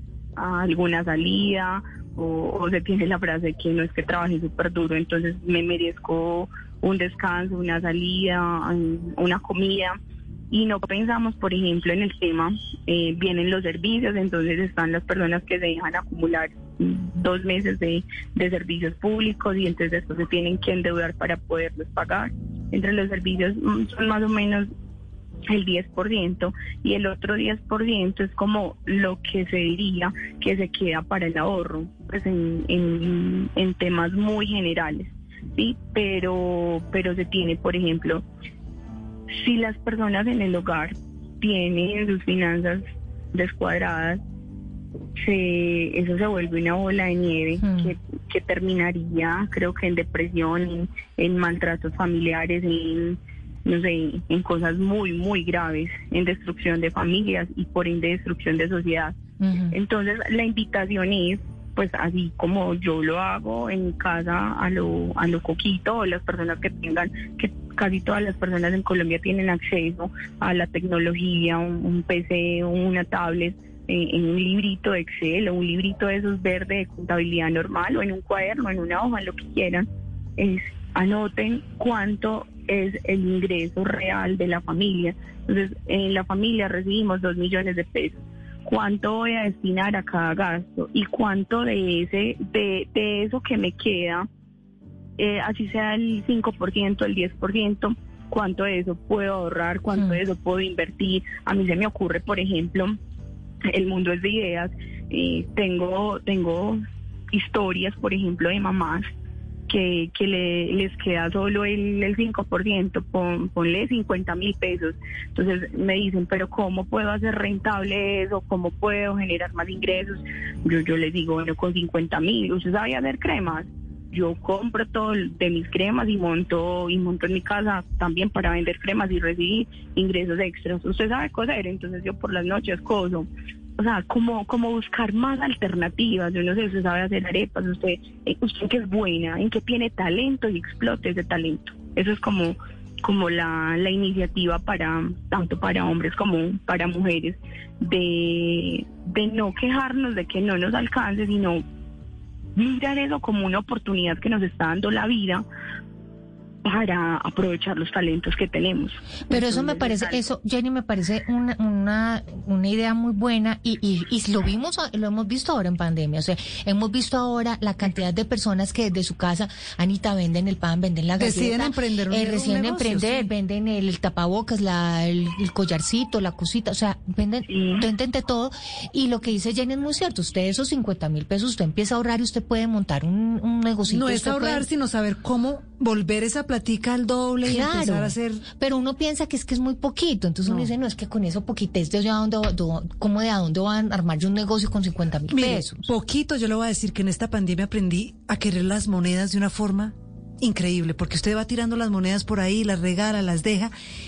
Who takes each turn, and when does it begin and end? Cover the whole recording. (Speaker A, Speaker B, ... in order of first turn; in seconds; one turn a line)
Speaker A: 0.4-10.0
Speaker A: 10.5-24.7
Speaker A: 25.5-38.2
Speaker A: 39.3-44.2
Speaker A: 45.2-59.1
Speaker B: 47.6-47.9
Speaker B: 59.4-59.8
Speaker A: 59.7-79.9
Speaker A: 80.4-94.3
Speaker A: 95.2-103.0
Speaker A: 103.7-106.8
Speaker A: 107.3-109.1
Speaker A: 109.7-133.3
Speaker A: 133.8-151.6
Speaker A: 152.6-155.4
Speaker A: 156.7-160.2
Speaker B: 159.3-184.7
Speaker C: 171.2-173.3
Speaker A: 177.5-177.9
Speaker C: 183.9-188.4
Speaker B: 187.4-195.8
Speaker C: 190.5-190.7
Speaker C: 195.3-203.7